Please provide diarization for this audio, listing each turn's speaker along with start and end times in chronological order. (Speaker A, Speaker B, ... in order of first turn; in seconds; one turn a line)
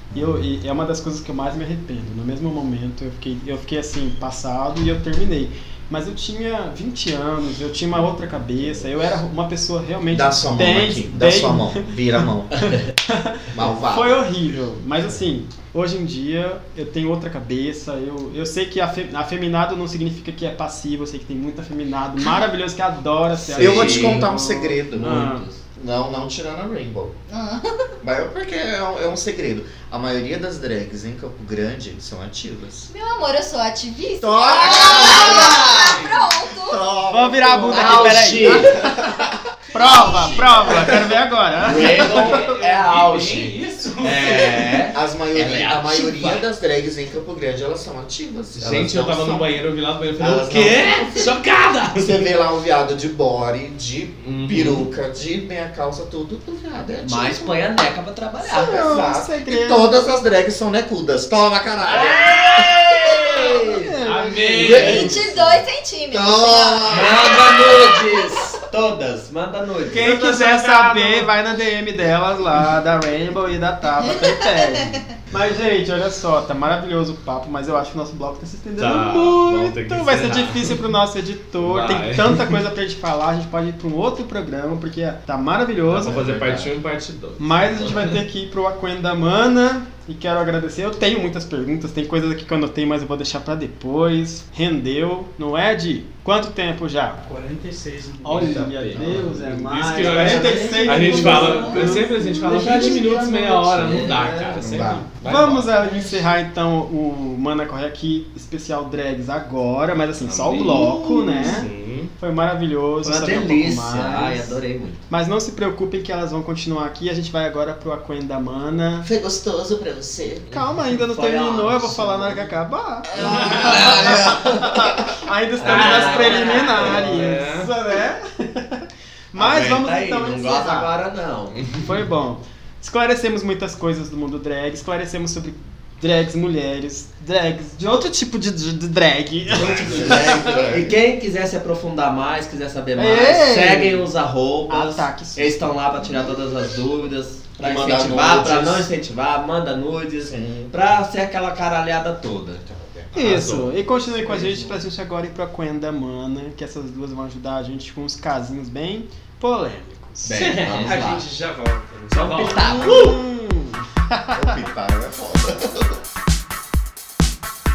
Speaker A: 0.1-11.9
Speaker B: 10.1-12.8
Speaker A: 13.1-25.5
Speaker B: 13.5-14.2
Speaker C: 23.5-24.4
Speaker B: 23.6-25.2
Speaker C: 24.9-25.6
Speaker B: 25.8-27.1
Speaker D: 27.3-27.9
Speaker B: 28.0-32.9
Speaker D: 32.9-36.9
Speaker B: 34.2-39.3
Speaker C: 34.8-35.7
Speaker E: 35.7-36.2
Speaker A: 37.1-38.9
Speaker C: 37.7-38.8
Speaker A: 39.7-42.4
Speaker D: 39.8-40.6
Speaker C: 41.6-46.5
Speaker E: 41.9-44.8
Speaker B: 44.8-49.6
Speaker E: 48.5-52.3
Speaker B: 50.2-51.4
Speaker B: 52.0-57.7
Speaker E: 54.2-54.9
Speaker C: 57.0-59.0
Speaker A: 58.4-59.9
Speaker B: 58.6-63.8
Speaker E: 61.9-65.2
Speaker C: 62.0-63.7
Speaker A: 63.7-65.2
Speaker B: 64.6-65.4
Speaker D: 64.7-67.0
Speaker B: 66.1-68.2
Speaker C: 66.9-70.2
Speaker A: 69.9-86.2
Speaker E: 70.1-71.3
Speaker D: 74.3-75.0
Speaker E: 78.8-80.8
Speaker E: 81.6-82.6
Speaker C: 85.9-86.7
Speaker E: 85.9-88.2
Speaker A: 87.4-97.2
Speaker F: 97.2-98.7
Speaker A: 98.2-102.8
Speaker E: 98.3-105.7
Speaker C: 99.8-105.1
Speaker B: 104.7-105.0
Speaker A: 105.2-119.1
Speaker E: 110.2-112.1
Speaker C: 111.3-111.6
Speaker C: 113.0-115.0
Speaker B: 119.0-120.5
Speaker E: 120.5-120.8
Speaker A: 120.5-130.9
Speaker C: 121.1-122.6
Speaker B: 123.1-124.5
Speaker C: 123.2-124.9
Speaker E: 123.2-124.0
Speaker C: 125.6-127.3
Speaker E: 125.6-127.7
Speaker C: 129.3-131.6
Speaker A: 131.8-140.6
Speaker C: 139.5-152.7
Speaker B: 139.6-140.9
Speaker A: 143.0-144.1
Speaker A: 144.7-145.8
Speaker B: 147.6-148.9
Speaker B: 150.2-150.8
Speaker B: 152.7-153.1
Speaker A: 153.1-160.5
Speaker E: 153.2-153.7
Speaker C: 154.2-154.8
Speaker C: 160.2-161.3
Speaker E: 160.3-160.9
Speaker F: 160.6-162.7
Speaker C: 162.1-163.1
Speaker E: 162.2-163.2
Speaker A: 162.6-164.5
Speaker B: 164.3-166.0